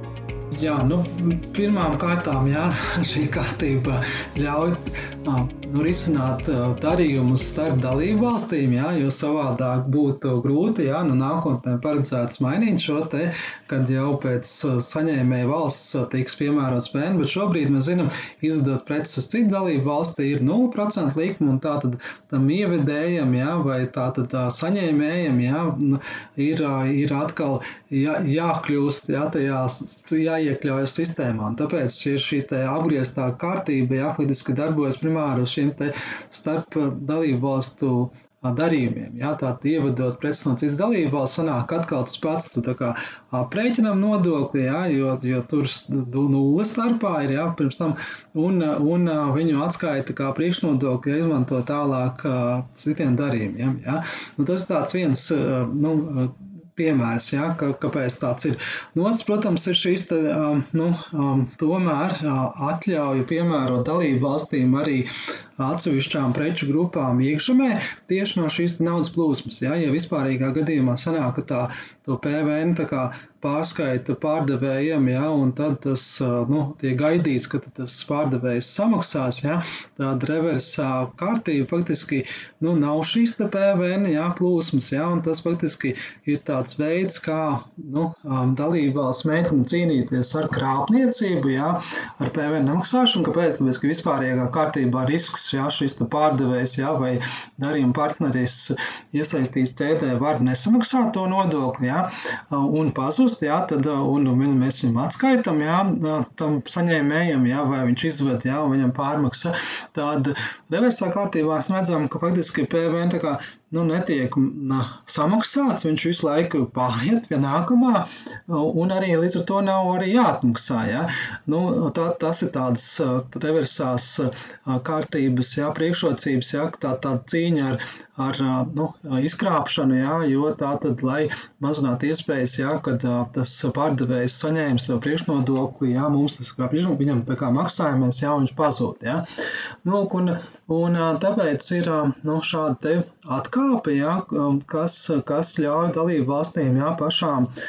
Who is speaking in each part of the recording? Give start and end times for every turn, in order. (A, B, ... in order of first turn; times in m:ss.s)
0:00.5-2:19.2 A
2:19.8-2:27.5 A